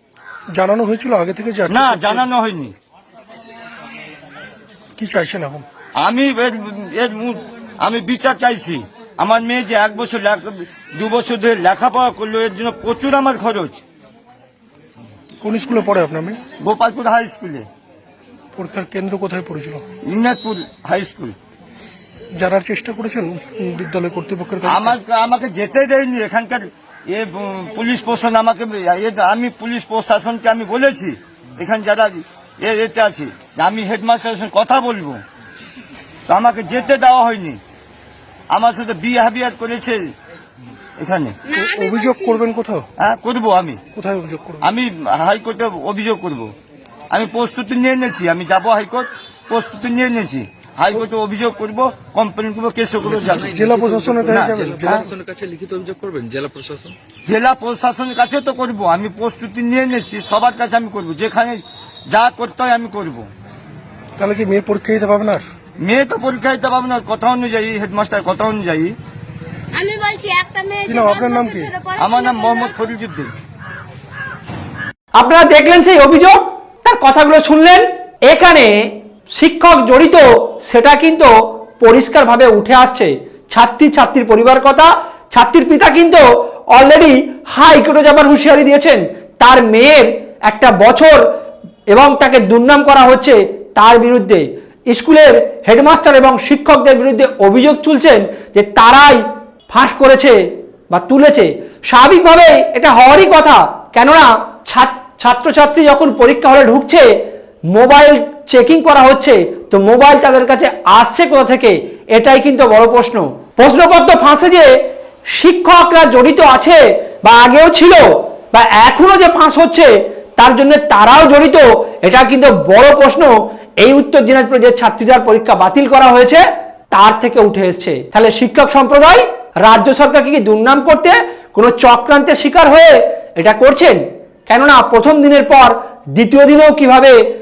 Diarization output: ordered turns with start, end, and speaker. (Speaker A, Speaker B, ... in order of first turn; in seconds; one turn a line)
Speaker A: 0.5-2.3
Speaker B: 1.7-2.8
Speaker A: 5.0-5.7
Speaker B: 6.0-13.8
Speaker A: 15.4-16.4
Speaker B: 16.6-17.7
Speaker A: 18.6-19.8
Speaker B: 20.1-21.4
Speaker A: 22.3-25.0
Speaker B: 24.6-35.2
Speaker B: 36.3-37.6
Speaker B: 38.5-40.0
Speaker B: 41.0-41.4
Speaker C: 41.5-42.5
Speaker A: 41.5-42.9
Speaker B: 43.0-43.8
Speaker A: 43.9-44.7
Speaker B: 44.6-46.5
Speaker B: 47.1-53.6
Speaker D: 53.0-57.0
Speaker A: 53.4-55.1
Speaker B: 54.3-55.1
Speaker B: 57.2-63.3
Speaker A: 64.2-65.5
Speaker B: 65.8-69.0
Speaker C: 69.7-72.9
Speaker A: 70.9-71.7
Speaker B: 72.0-73.3
Speaker E: 75.2-86.2
Speaker E: 86.8-91.2
Speaker E: 91.9-100.4
Speaker E: 100.9-107.1
Speaker E: 107.7-114.7
Speaker E: 115.4-137.2